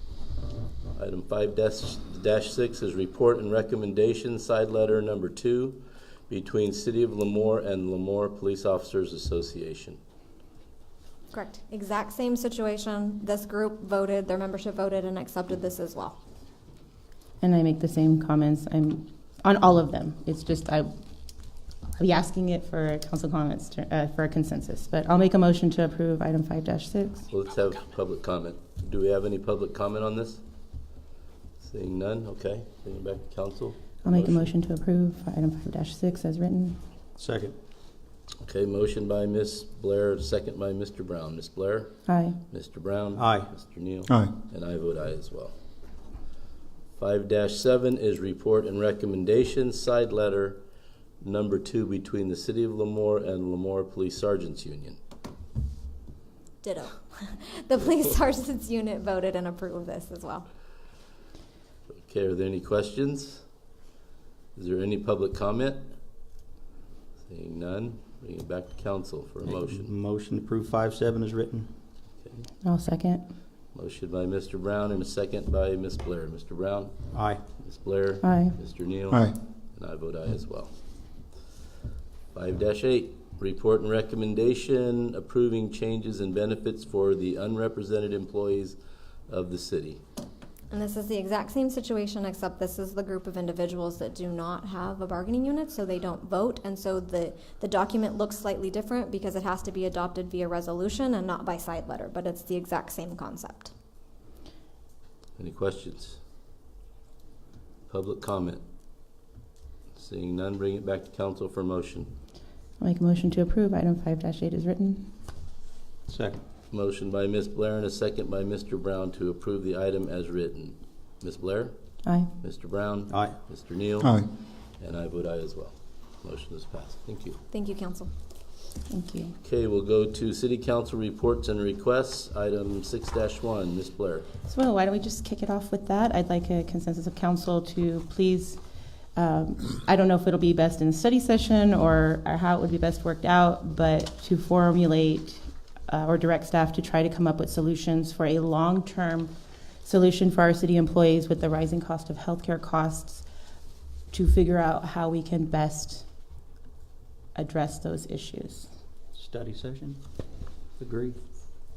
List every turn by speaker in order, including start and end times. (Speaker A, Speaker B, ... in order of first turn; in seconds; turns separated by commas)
Speaker A: 0.9-10.0, Speaker B: 11.3-16.2, Speaker C: 17.4-20.9, Speaker C: 22.0-27.3, Speaker A: 27.3-30.4, Speaker A: 31.6-34.5, Speaker C: 34.0-36.8, Speaker D: 37.2-37.5, Speaker A: 38.5-42.0, Speaker C: 42.1-42.4, Speaker A: 42.5-45.5, Speaker D: 43.2-43.5, Speaker A: 47.0-50.6, Speaker A: 51.2-55.0, Speaker B: 56.6-60.5, Speaker A: 61.9-63.4, Speaker A: 64.6-65.8, Speaker A: 67.3-69.9, Speaker D: 69.5-71.7, Speaker C: 72.6-73.2, Speaker A: 73.7-76.9, Speaker D: 77.1-77.4, Speaker A: 77.6-80.7, Speaker C: 78.2-78.6, Speaker A: 82.3-88.8, Speaker A: 89.3-90.0, Speaker B: 90.7-103.7, Speaker A: 105.4-106.2, Speaker A: 107.9-108.6, Speaker A: 110.0-112.1, Speaker C: 112.8-115.1, Speaker D: 116.1-116.4, Speaker A: 116.7-121.7, Speaker C: 122.0-122.3, Speaker A: 122.4-124.2, Speaker D: 123.1-123.4, Speaker A: 124.8-127.4, Speaker B: 127.5-128.1, Speaker C: 128.9-129.3, Speaker A: 129.4-134.3, Speaker C: 134.5-138.6, Speaker C: 139.2-149.3, Speaker C: 149.8-153.2, Speaker C: 154.1-156.1, Speaker C: 157.3-158.7, Speaker D: 159.1-160.0, Speaker D: 160.8-161.2